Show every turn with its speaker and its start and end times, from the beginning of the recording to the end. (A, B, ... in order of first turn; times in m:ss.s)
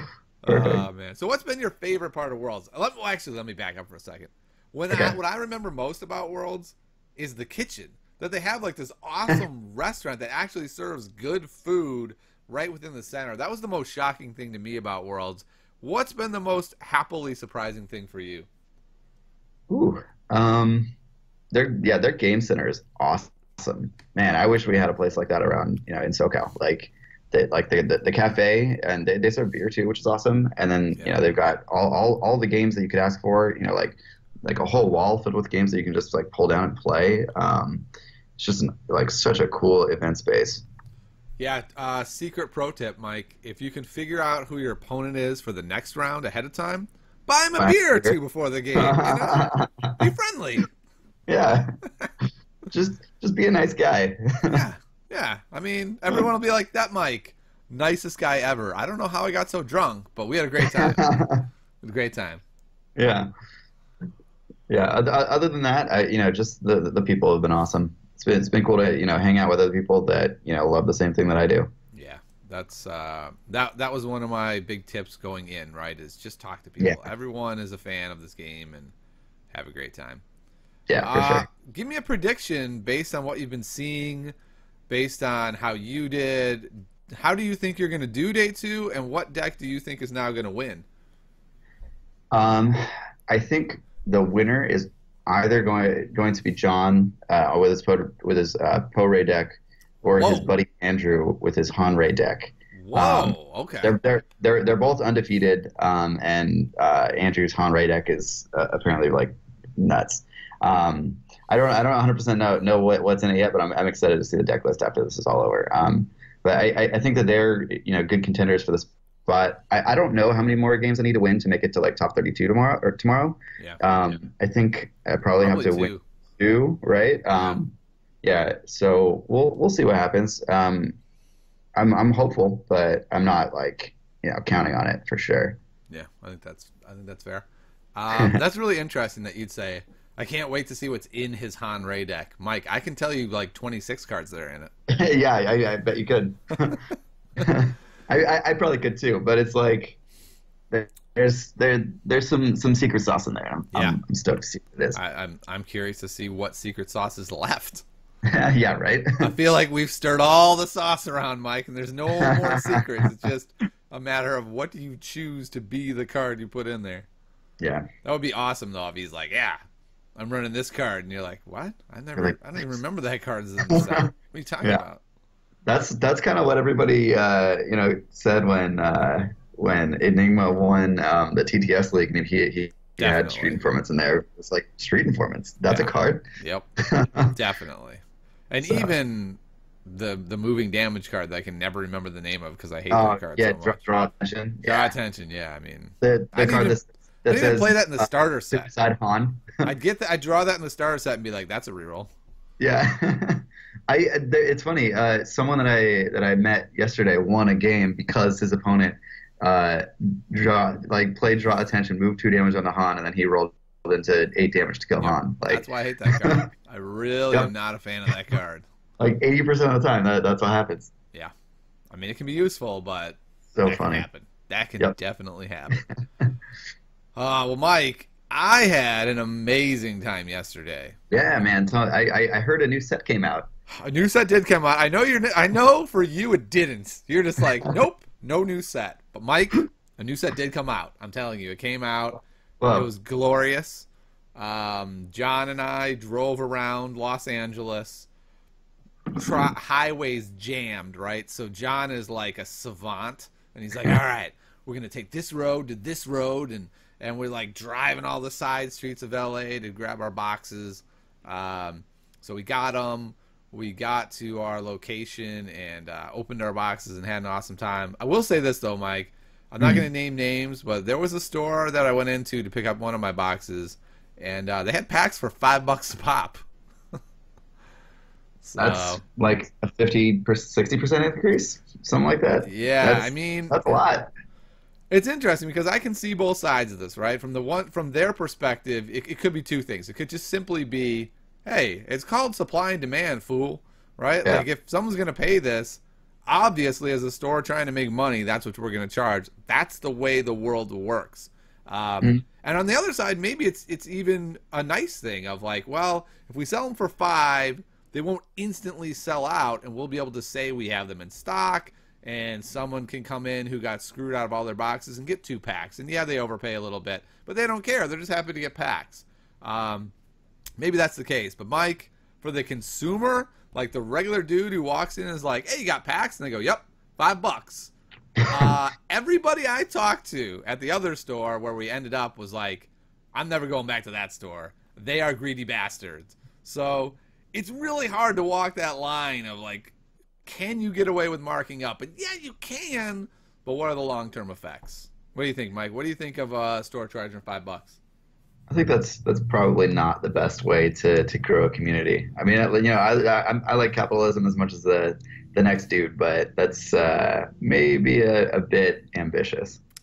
0:00.4-0:18.5 A
0:00.5-0:00.8 B
0:19.7-0:20.9 B
0:21.5-0:37.9 B
0:31.0-0:31.3 A
0:38.4-0:40.6 B
0:41.4-0:50.7 A
0:47.6-0:48.2 B
0:48.8-0:50.0 B
0:51.3-0:51.7 B
0:52.7-0:54.6 B
0:54.5-1:01.1 A
1:00.6-1:01.5 B
1:01.8-1:02.4 A
1:03.0-1:03.3 B
1:04.7-1:11.7 B
1:11.9-1:18.9 A
1:16.8-1:17.1 B
1:19.5-1:20.2 A
1:20.9-1:21.5 B
1:21.0-1:24.3 A
1:24.9-1:30.8 A
1:32.3-2:11.0 B
1:40.2-1:40.5 A
1:42.8-1:44.0 A
2:05.4-2:06.0 A
2:07.3-2:07.6 A
2:11.8-2:15.6 B
2:15.9-2:24.7 A
2:24.9-2:26.8 B
2:27.4-2:30.0 B
2:30.7-2:35.0 B
2:33.7-2:34.0 A
2:34.9-2:37.8 A
2:38.3-2:39.3 B
2:39.2-2:47.1 A
2:42.2-2:42.8 B
2:47.6-2:47.9 B
2:48.0-2:49.6 A
2:50.2-2:55.0 A
2:53.7-2:54.1 B
2:55.6-3:06.2 B
3:03.0-3:03.6 A
3:05.7-3:06.7 A
3:06.8-3:07.3 B
3:07.3-3:13.8 A
3:08.6-3:08.9 B
3:12.9-3:14.9 B
3:14.6-3:18.7 A
3:16.0-3:19.6 B
3:19.6-3:22.1 A
3:22.6-3:36.5 B
3:35.0-3:38.7 A
3:39.0-3:40.9 B
3:41.9-3:45.8 A
3:43.5-3:44.1 B
3:47.2-3:51.0 A
3:51.1-3:53.5 B
3:53.7-4:02.2 A
4:02.6-4:02.9 B
4:02.7-4:08.1 A
4:09.2-4:36.4 A
4:38.4-4:39.0 A
4:38.6-4:44.1 B
4:42.4-4:43.8 A
4:44.9-5:19.9 A
5:20.6-5:27.7 A
5:28.2-5:39.7 A
5:40.2-5:47.8 A
5:48.5-5:59.6 B